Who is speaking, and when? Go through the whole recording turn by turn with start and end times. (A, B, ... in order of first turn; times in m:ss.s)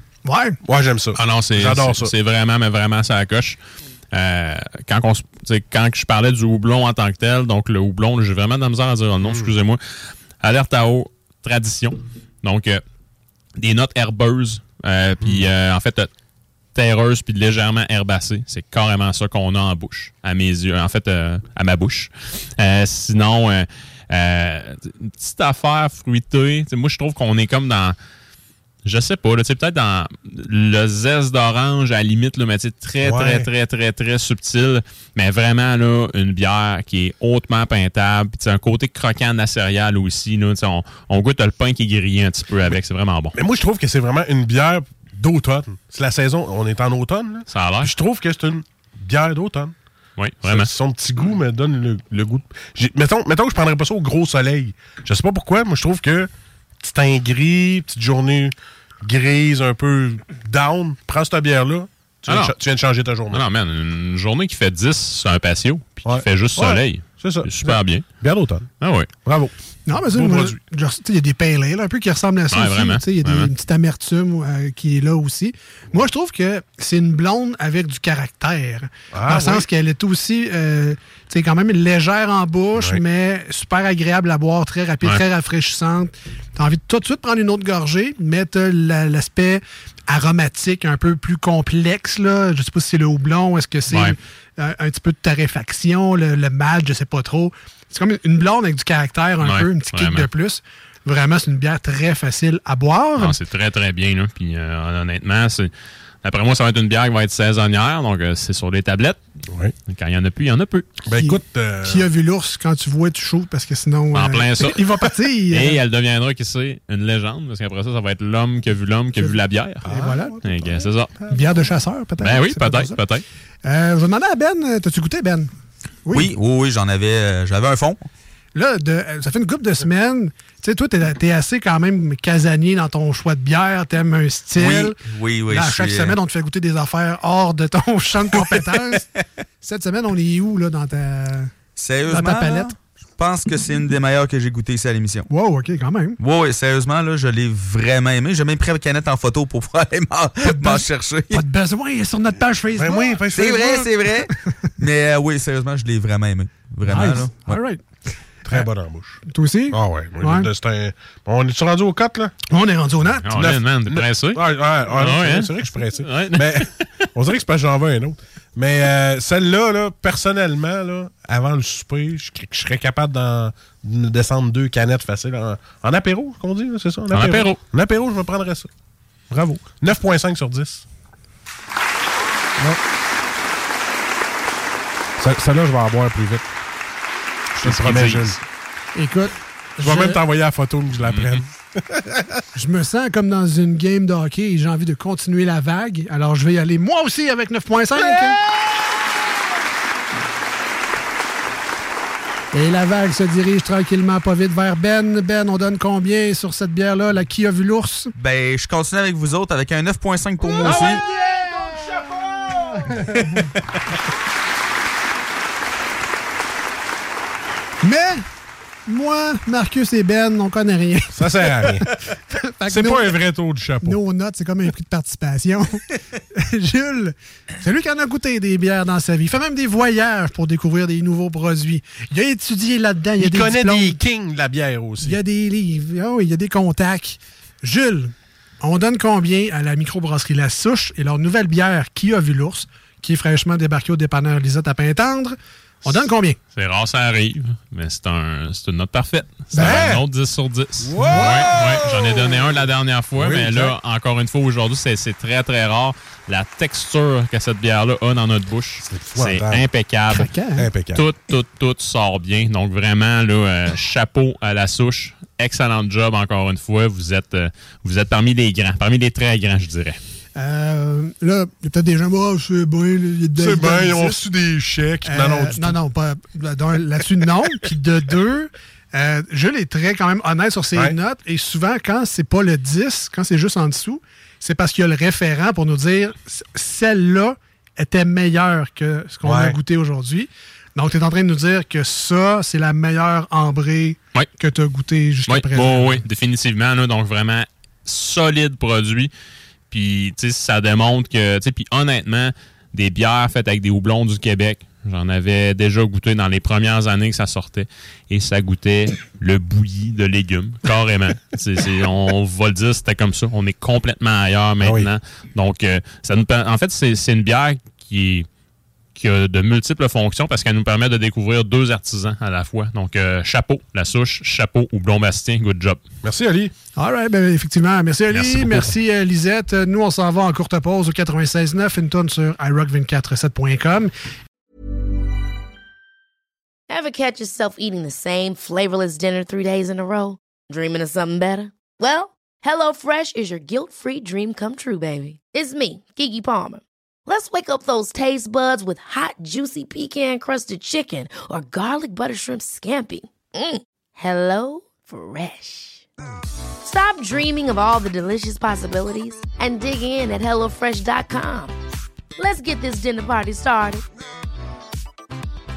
0:00.2-0:00.6 A
0:00.6-0:02.1 B
0:01.1-0:03.6 C
0:04.1-0:12.8 C
0:09.2-0:09.5 B
0:13.6-0:16.1 C
0:15.2-0:15.5 B
0:16.7-0:28.0 C
0:28.8-0:43.4 C
0:33.0-0:33.5 B
0:43.3-0:49.7 B
0:47.5-0:47.9 C
0:50.2-0:50.7 C
0:50.4-0:56.3 B
0:56.8-1:03.4 B
1:02.3-1:02.6 C
1:03.3-1:08.1 C
1:06.0-1:08.7 B
1:08.8-1:09.1 C
1:09.2-1:09.5 B
1:09.9-1:43.4 A
1:10.1-1:10.6 B
1:12.5-1:13.5 C
1:19.1-1:19.7 B
1:22.8-1:23.0 B
1:33.9-1:34.2 C
1:39.4-1:40.3 C
1:43.2-1:45.7 C
1:46.2-1:49.2 C
1:49.5-1:49.7 B
1:49.9-1:50.9 C
1:51.0-1:52.1 B
1:51.2-1:55.8 A
1:54.1-1:54.9 C
1:55.5-1:59.8 C
1:59.2-2:00.5 A
1:59.8-2:00.2 B
2:00.4-2:01.1 C
2:01.3-2:03.0 A
2:02.2-2:03.2 C
2:03.6-2:05.5 A
2:06.0-2:06.3 A
2:06.1-2:08.0 D
2:08.5-2:19.1 A
2:14.6-2:16.2 D
2:19.6-2:21.5 A
2:21.8-2:25.3 D
2:22.1-2:22.7 A
2:25.3-2:26.2 A
2:26.2-2:31.4 D
2:30.4-2:33.2 A
2:32.8-2:33.9 B
2:33.3-2:37.6 D
2:36.8-2:37.8 A
2:38.5-2:42.3 B
2:39.2-2:40.5 A
2:42.5-2:43.3 A
2:43.3-2:47.1 C
2:43.3-2:58.7 B
2:57.1-2:57.6 C
2:59.3-3:00.8 B
3:05.2-3:06.4 B
3:07.6-3:08.4 B
3:07.6-3:08.3 C
3:08.9-3:10.2 A
3:09.8-3:12.4 B
3:11.0-3:11.4 C
3:12.5-3:18.4 A
3:22.5-3:28.1 A
3:28.2-3:31.0 D
3:30.6-3:31.0 B
3:32.4-3:33.4 B
3:37.8-3:38.2 A
3:38.8-3:43.2 A
3:41.1-3:42.0 B
3:42.7-3:44.0 B
3:43.8-3:54.0 A
3:53.2-3:55.2 B
3:55.0-4:06.4 A
4:06.5-4:20.3 C
4:09.5-4:09.9 A
4:09.6-4:10.0 B
4:10.8-4:12.5 B
4:11.0-4:11.5 A
4:13.1-4:13.8 B
4:18.8-4:19.6 B
4:20.1-4:20.7 A
4:20.6-4:21.0 B
4:20.9-4:30.0 C
4:30.4-4:34.2 A
4:33.4-4:35.8 B
4:35.0-4:56.0 A
4:49.2-4:49.6 B
4:55.3-4:59.1 C
4:59.7-5:18.3 C
5:14.6-5:14.9 B
5:18.9-5:25.8 C
5:26.0-5:26.5 B
5:26.8-5:33.9 A
5:28.1-5:28.7 C
5:36.7-5:55.8 E
5:56.6-6:01.5 E
6:02.2-6:03.8 E